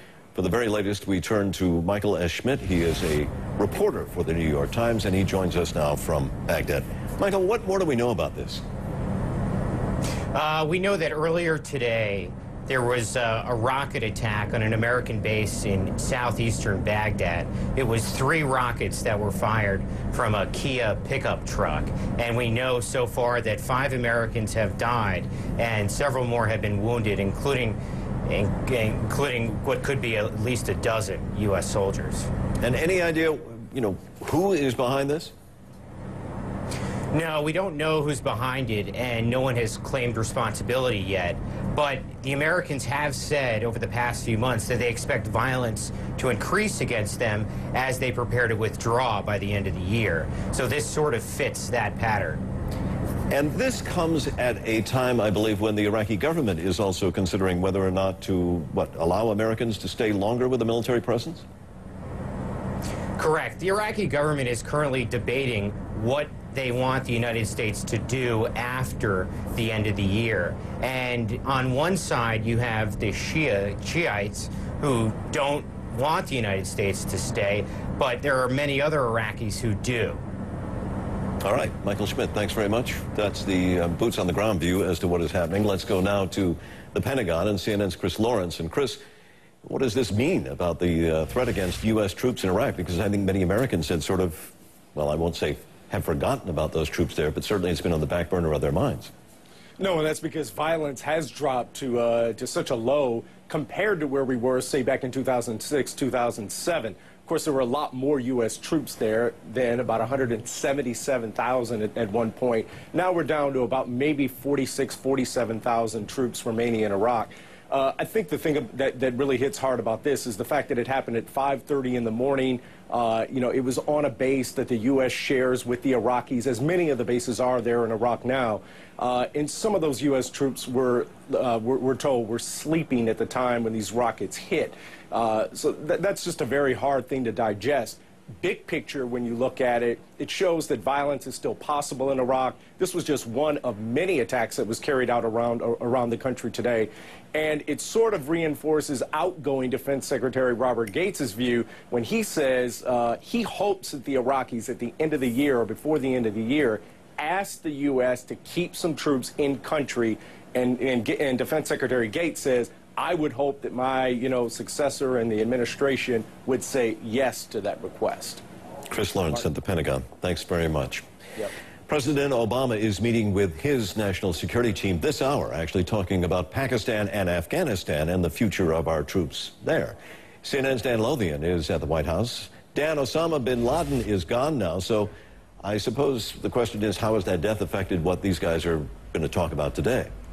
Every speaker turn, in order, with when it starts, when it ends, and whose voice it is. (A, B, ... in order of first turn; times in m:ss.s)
0:00.4-0:08.6 A
0:10.3-0:32.3 B
0:32.6-0:35.3 A
0:37.1-0:52.4 B
0:53.3-1:01.4 A
1:03.2-1:20.2 B
1:21.4-1:29.0 A
1:29.6-1:39.1 A
1:39.8-2:48.4 C
2:48.9-2:51.0 A
2:51.9-3:10.1 A